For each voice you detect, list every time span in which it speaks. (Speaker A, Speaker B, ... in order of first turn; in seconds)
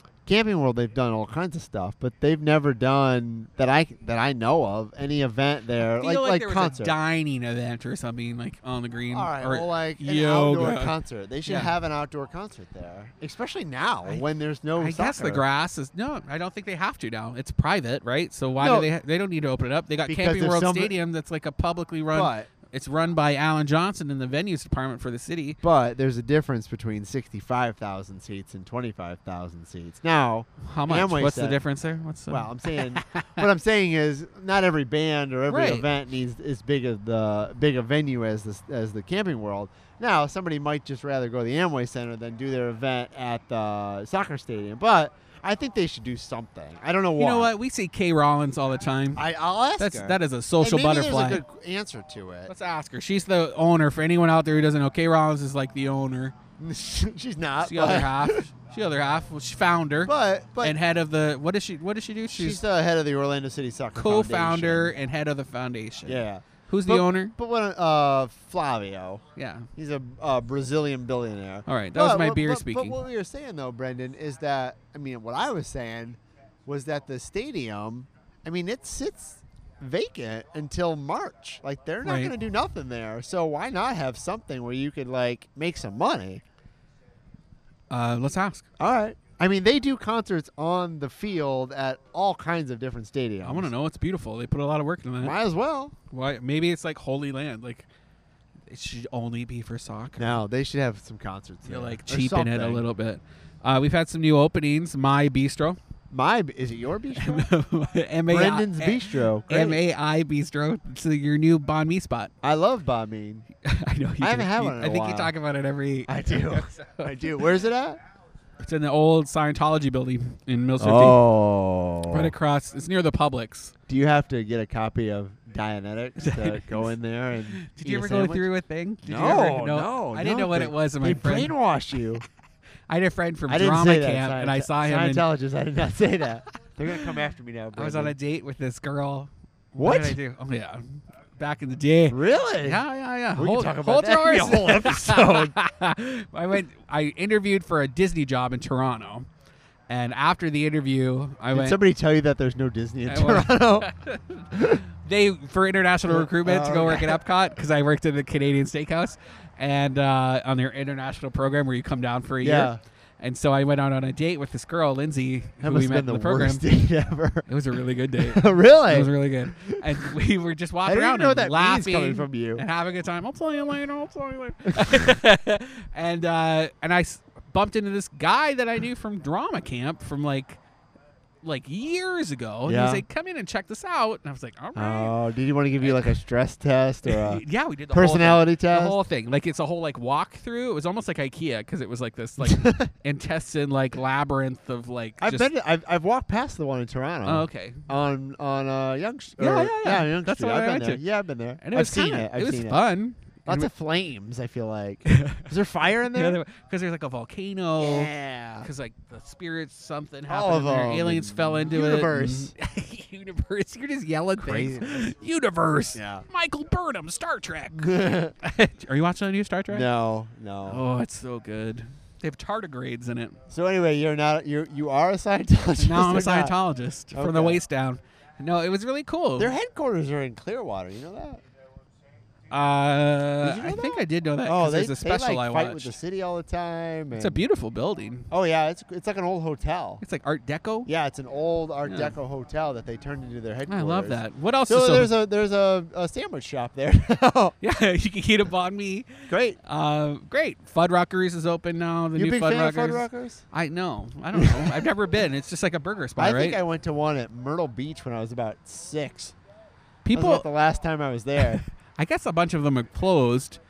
Speaker A: 0.3-7.0, 9.1-15.4, 18.6-18.9, 20.1-21.0, 22.1-22.5, 25.6-31.6, 32.3-47.5, 49.2-52.5, 56.6-58.5, 60.0-60.8, 62.3-65.0, 66.0-69.2, 69.7-86.4, 88.8-93.7, 95.2-96.0, 100.2-102.8, 106.1-107.5, 108.3-109.8, 112.4-113.5, 114.2-115.3, 116.1-118.0, 120.8-122.3, 123.9-128.5, 129.1-132.2, 133.5-138.1, 139.8-140.2, 142.1-142.8, 143.3-145.6, 151.5-153.9, 154.5-154.8, 156.1-157.2, 162.4-162.8, 165.6-167.5, 168.2-170.1, 170.8-172.7, 174.8-175.1, 182.7-183.1, 184.8-189.0, 192.4-192.9, 195.2-202.8, 203.5-206.4, 207.8-208.7, 210.3-212.5, 214.4-215.1, 215.9-216.3, 217.7-218.3, 219.7-220.8, 223.5-226.6, 227.1-227.6, 229.4-231.4, 233.4-237.4, 238.3-240.0, 240.9-247.6, 249.3-249.6, 252.2-253.5, 254.3-254.9, 256.2-259.4, 260.1-261.6
Speaker B: 5.8-11.7, 14.8-25.6, 30.6-33.4, 35.5-35.9, 47.2-49.2, 49.8-51.4, 52.5-56.4, 57.6-62.6, 64.0-67.3, 69.4-69.7, 71.7-73.0, 82.0-82.3, 87.9-88.7, 93.4-95.4, 96.1-97.9, 98.7-100.4, 101.7-105.8, 107.2-112.3, 113.6-117.4, 118.6-121.2, 122.1-123.7, 126.2-126.8, 127.6-131.5, 132.9-135.2, 137.8-149.3, 149.9-151.8, 153.1-166.6, 167.5-180.6, 181.4-185.2, 185.8-186.1, 187.0-195.5, 197.2-197.9, 199.4-201.0, 201.6-203.7, 205.1-205.5, 206.1-219.9, 220.7-223.4, 225.8-229.5, 232.5-235.9, 237.2-238.3, 240.0-240.9, 241.9-242.2, 243.7-245.1, 247.6-256.6, 260.1-260.5, 261.5-263.6